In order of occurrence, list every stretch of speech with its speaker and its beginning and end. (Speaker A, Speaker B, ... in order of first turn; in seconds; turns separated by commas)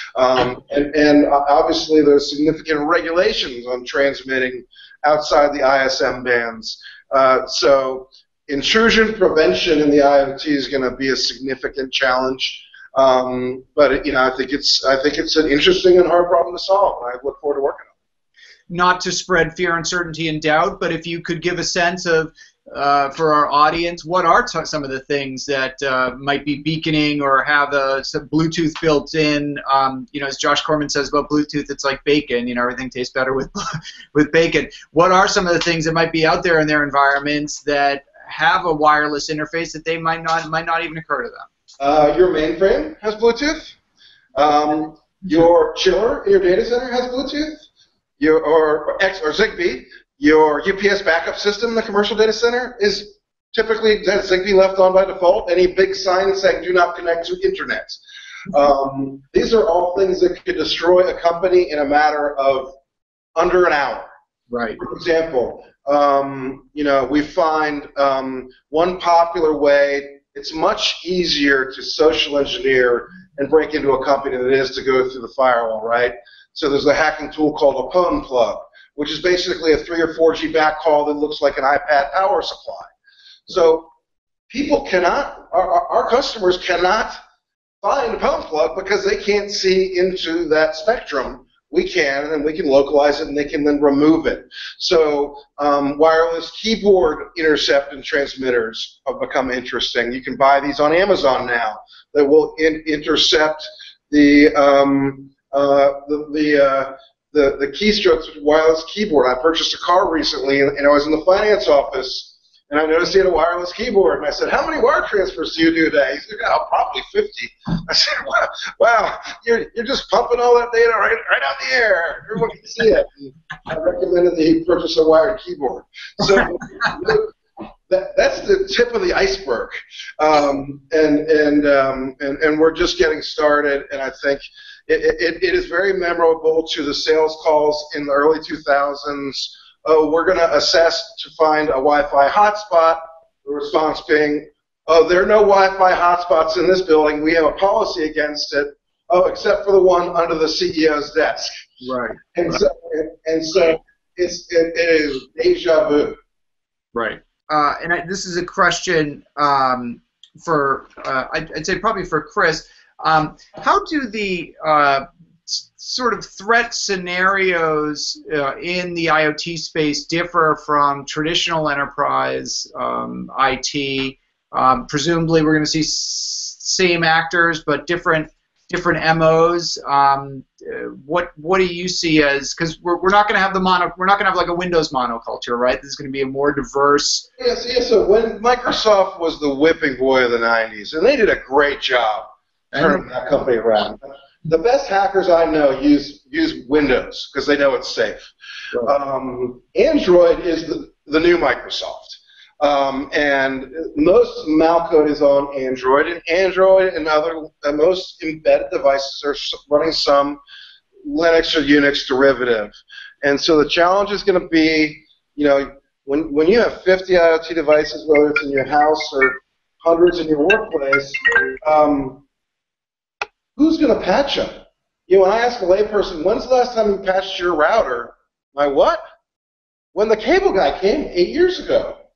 Speaker A: 0.1-17.9, Speaker B: 18.7-41.5, Speaker A: 41.8-43.7, Speaker A: 44.3-47.6, Speaker A: 48.2-62.7, Speaker A: 63.4-64.1, Speaker B: 64.5-64.8, Speaker A: 64.8-82.9, Speaker A: 83.5-83.9, Speaker A: 84.5-87.2, Speaker A: 87.8-127.3, Speaker A: 127.9-151.5, Speaker B: 151.8-152.6, Speaker A: 152.3-156.2, Speaker B: 156.9-187.3, Speaker A: 187.4-198.2, Speaker B: 192.7-193.0, Speaker A: 198.8-210.4, Speaker A: 211.0-222.2, Speaker A: 223.6-229.0, Speaker A: 229.9-232.0